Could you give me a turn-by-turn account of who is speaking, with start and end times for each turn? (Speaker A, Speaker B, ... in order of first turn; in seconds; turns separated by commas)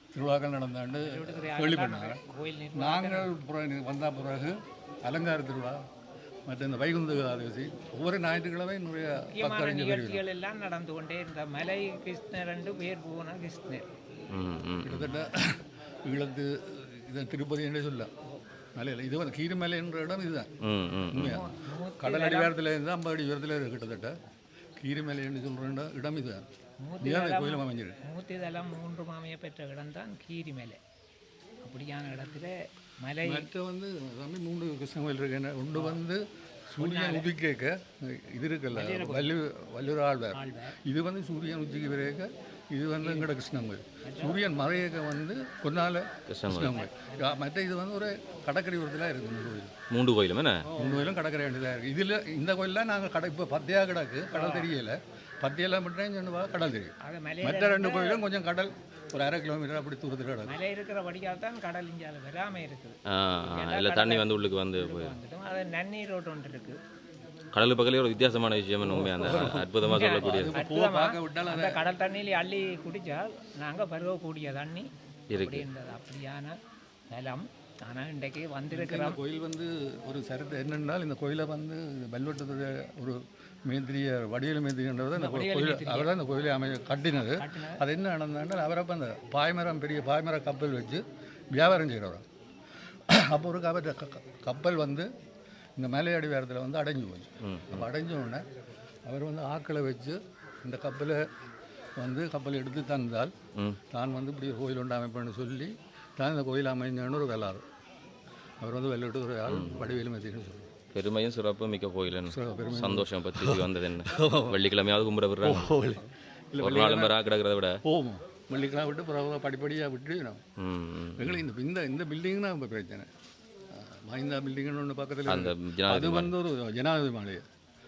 Speaker A: 0.1-2.2, Speaker B: 0.9-3.3, Speaker A: 2.7-5.8, Speaker A: 6.5-10.2, Speaker B: 9.2-13.8, Speaker C: 14.3-15.1, Speaker A: 14.8-18.1, Speaker A: 18.8-20.5, Speaker C: 20.6-21.4, Speaker A: 21.1-24.1, Speaker B: 21.2-22.5, Speaker A: 24.8-26.5, Speaker B: 26.8-30.8, Speaker A: 27.0-28.0, Speaker B: 31.6-33.5, Speaker A: 33.2-49.7, Speaker B: 35.7-36.0, Speaker B: 36.8-37.3, Speaker B: 38.7-39.4, Speaker B: 40.3-40.8, Speaker B: 43.0-43.3, Speaker B: 44.0-44.4, Speaker C: 46.3-46.8, Speaker B: 46.6-47.4, Speaker C: 49.9-50.7, Speaker B: 50.7-51.1, Speaker A: 50.7-60.5, Speaker B: 54.3-54.7, Speaker B: 57.0-58.2, Speaker B: 60.5-63.0, Speaker C: 63.1-65.2, Speaker B: 63.5-66.8, Speaker C: 67.5-70.5, Speaker A: 68.8-71.8, Speaker B: 69.8-74.9, Speaker C: 75.3-75.7, Speaker B: 75.4-76.5, Speaker B: 77.1-79.2, Speaker A: 78.7-92.2, Speaker B: 85.1-86.1, Speaker B: 87.3-87.8, Speaker A: 93.1-95.1, Speaker A: 95.8-98.4, Speaker C: 97.4-97.8, Speaker A: 99.0-101.2, Speaker A: 102.0-103.3, Speaker A: 103.9-107.6, Speaker A: 108.6-110.7, Speaker C: 109.5-109.9, Speaker C: 110.9-115.7, Speaker A: 112.3-114.6, Speaker A: 115.4-117.2, Speaker C: 116.6-117.8, Speaker A: 117.8-120.4, Speaker C: 120.6-121.4, Speaker A: 121.2-123.1, Speaker A: 123.7-127.4, Speaker C: 125.2-126.3